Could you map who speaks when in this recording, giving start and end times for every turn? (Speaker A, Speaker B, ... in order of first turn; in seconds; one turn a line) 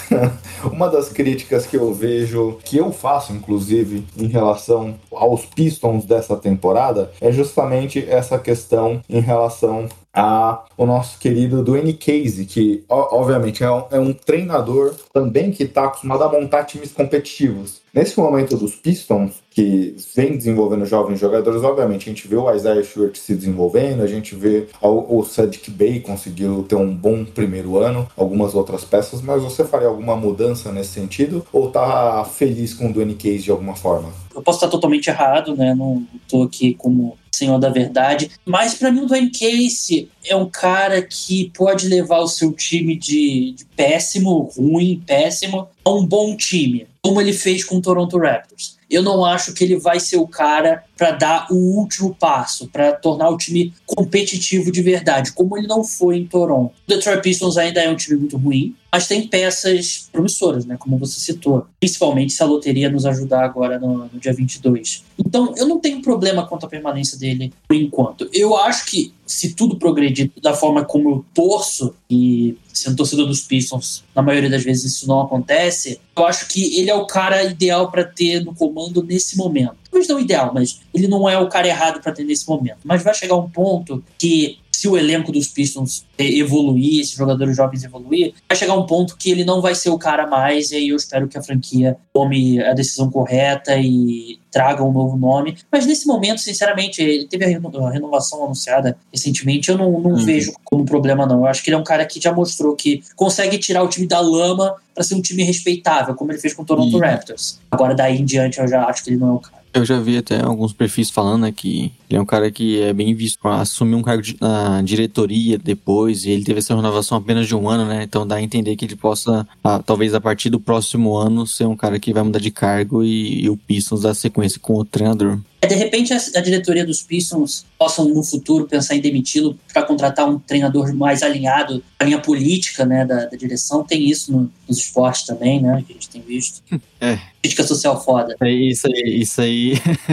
Speaker A: 0.1-34.2
Speaker B: 34.4-109.6
Speaker C: 100.1-100.5
Speaker C: 106.8-107.1
Speaker C: 109.7-125.4
Speaker B: 125.6-136.6
Speaker C: 137.0-137.2
Speaker B: 137.4-138.4
Speaker C: 138.4-139.8